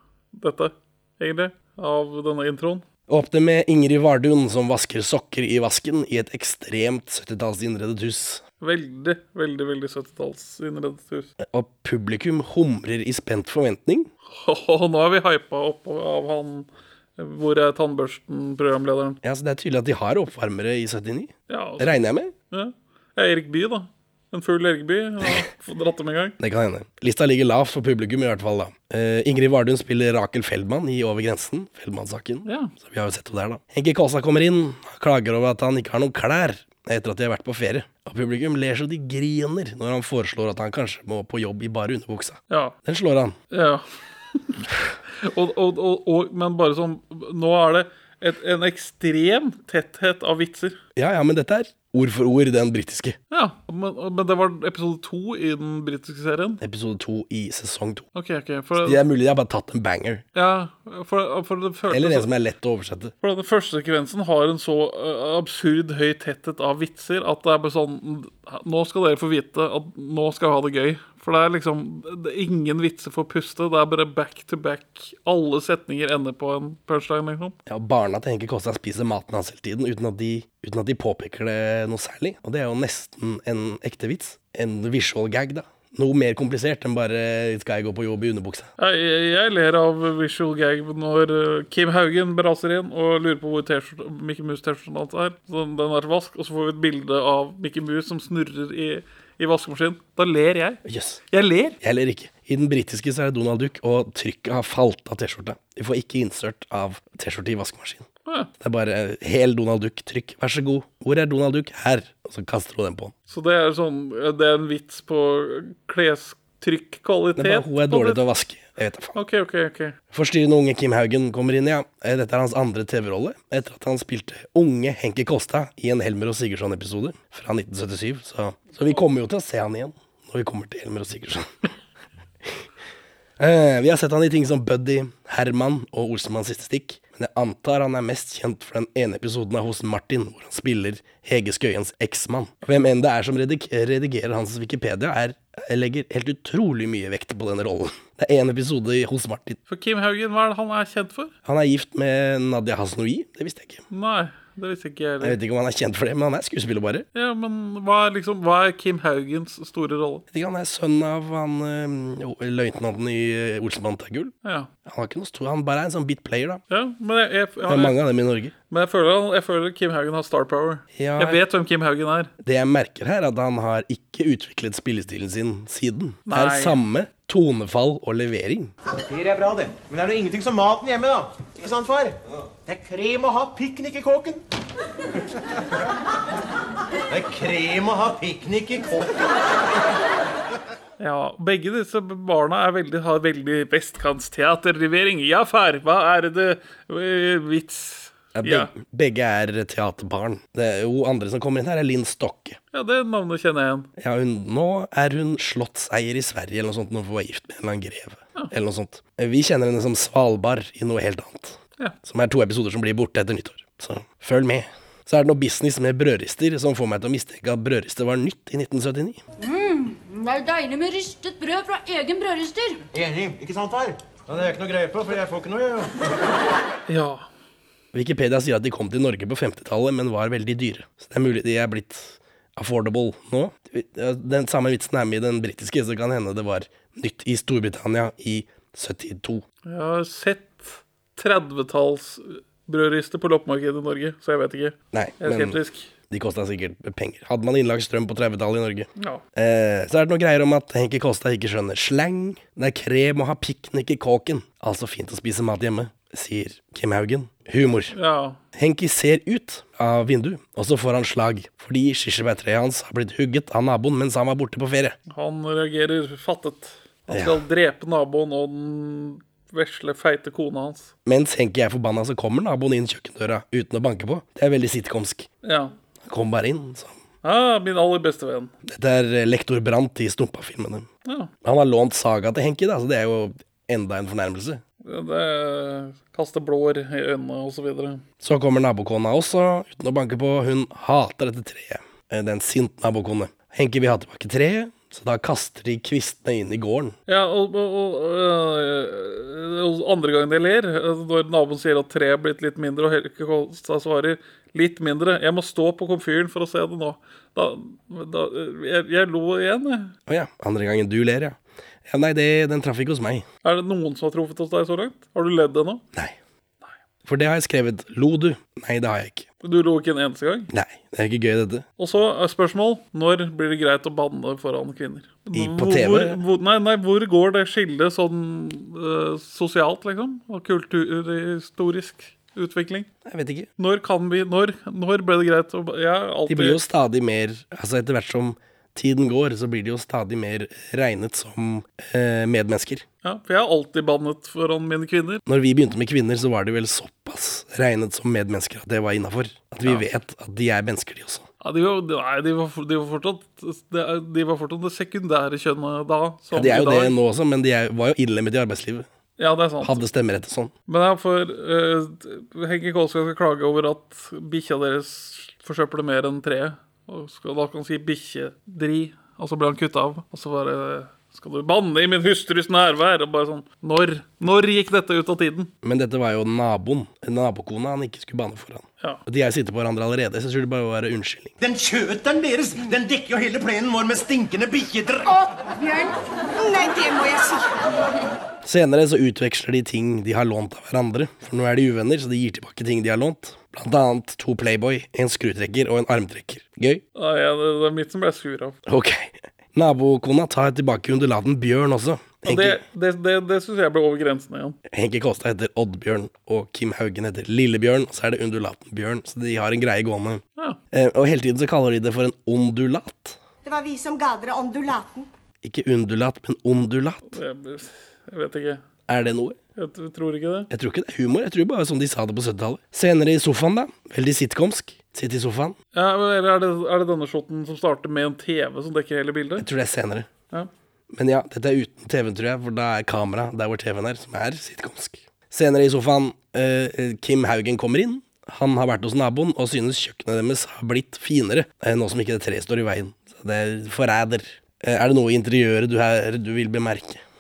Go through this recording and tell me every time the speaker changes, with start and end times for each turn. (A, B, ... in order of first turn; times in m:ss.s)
0:00.4-0:02.8 A
0:03.1-0:08.4 B
0:08.6-0:11.3 A
0:11.4-0:14.1 B
0:14.3-0:19.2 A
0:19.2-0:22.3 B
0:21.5-0:26.4 A
0:26.4-0:43.4 B
0:32.5-0:32.7 A
0:42.5-0:42.8 A
0:43.5-0:44.6 A
0:45.2-0:50.8 A
0:51.0-0:53.2 B
0:53.3-0:56.6 A
0:56.6-0:58.1 B
0:58.2-0:59.0 A
0:58.8-1:00.2 B
1:00.4-1:02.3 A
1:01.9-1:03.1 B
1:03.2-1:17.6 A
1:17.7-1:28.7 B
1:28.8-1:41.8 A
1:40.9-1:41.2 B
1:41.8-1:48.1 B
1:48.6-1:53.1 B
1:53.3-1:58.2 A
1:57.4-1:59.2 B
1:59.2-2:00.0 A
2:00.1-2:11.6 B
2:13.4-2:29.6 B
2:29.7-2:31.3 A
2:31.5-2:33.8 B
2:33.9-2:35.4 A
2:35.2-2:37.1 B
2:37.2-2:40.2 A
2:40.3-2:44.3 B
2:44.4-2:44.7 A
2:44.8-2:46.6 B
2:46.7-2:48.0 A
2:47.7-2:48.5 B
2:48.7-2:52.3 A
2:51.0-2:51.4 B
2:52.4-2:58.7 B
2:56.3-2:56.8 A
2:59.0-3:04.4 C
3:07.1-3:09.2 C
3:11.0-3:18.7 A
3:18.4-3:22.6 B
3:22.7-3:23.9 A
3:24.0-3:39.2 B
3:39.4-3:42.8 D
3:42.9-3:46.1 C
3:46.9-3:47.3 A
3:47.9-3:59.4 B
3:59.7-4:05.9 A
4:04.9-4:05.6 B
4:06.1-4:18.0 B
4:09.0-4:09.2 A
4:18.0-4:18.4 A
4:18.5-4:25.0 B
4:25.1-4:30.9 A
4:27.1-4:27.4 B
4:31.1-4:35.3 B
4:35.4-4:35.7 A
4:36.1-4:37.0 B
4:37.2-4:38.5 A
4:38.7-4:40.9 B
4:41.4-4:44.6 B
4:44.8-4:48.0 A
4:48.2-4:57.0 B
4:57.1-5:10.0 A
5:10.1-5:13.3 B
5:13.4-5:15.8 A
5:17.1-5:19.3 B
5:19.4-5:20.5 A
5:20.5-5:21.6 B
5:21.8-5:32.9 A
5:25.3-5:26.2 B
5:33.0-5:33.5 B
5:33.6-5:36.6 A
5:36.3-5:42.8 B
5:43.0-5:45.2 A
5:45.3-5:51.3 B
5:51.4-5:57.0 A
5:56.3-5:58.9 B
5:59.2-5:59.8 A
5:59.6-6:00.5 B
6:00.7-6:15.5 A
6:15.6-6:21.3 B
6:21.4-6:25.2 C
6:25.4-6:27.6 E
6:28.4-6:36.8 B
6:37.0-6:38.6 A
6:38.7-6:42.6 B
6:42.2-6:44.6 A
6:44.7-6:53.2 B
6:53.4-6:55.1 E
6:55.4-6:57.1 B
6:57.1-6:58.6 A
6:58.9-6:59.4 B
6:59.6-7:00.5 A
7:00.5-7:05.6 B
7:05.7-7:09.4 A
7:09.4-7:10.1 B
7:10.9-7:27.0 B